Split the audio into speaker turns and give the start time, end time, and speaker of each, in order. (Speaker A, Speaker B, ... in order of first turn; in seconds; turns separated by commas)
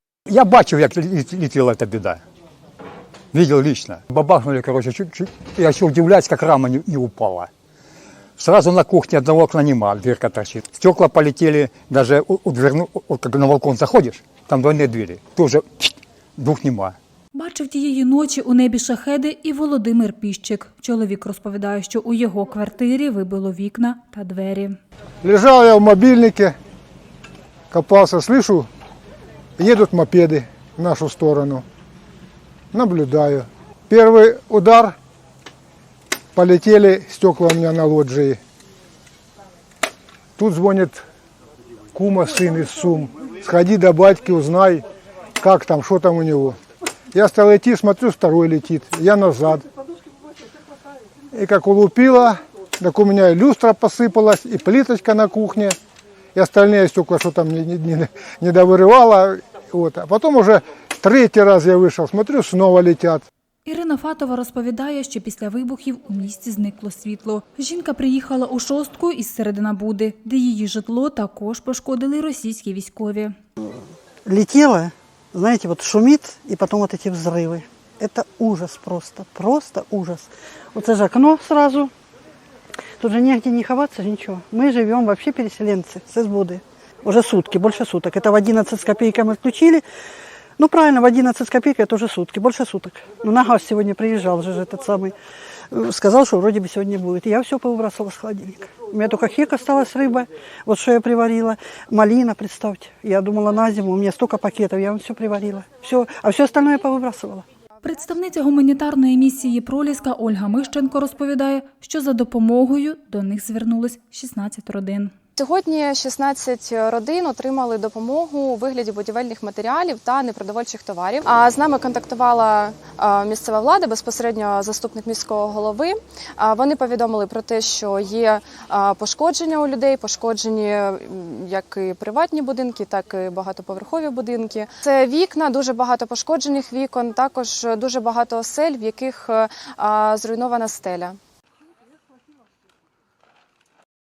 Speaker A: 0.3-2.2, Speaker A: 3.3-7.5, Speaker A: 8.4-16.9, Speaker B: 17.3-24.8, Speaker C: 25.2-26.5, Speaker C: 27.7-28.7, Speaker C: 29.6-31.6, Speaker C: 32.7-35.0, Speaker C: 36.3-38.4, Speaker C: 40.4-41.0, Speaker C: 41.9-44.8, Speaker C: 45.4-46.6, Speaker C: 47.1-49.6, Speaker C: 51.3-55.8, Speaker C: 56.3-63.2, Speaker B: 63.6-73.3, Speaker D: 73.6-81.9, Speaker D: 83.0-89.8, Speaker D: 90.6-95.1, Speaker D: 95.7-107.4, Speaker B: 107.8-115.1, Speaker E: 115.4-141.2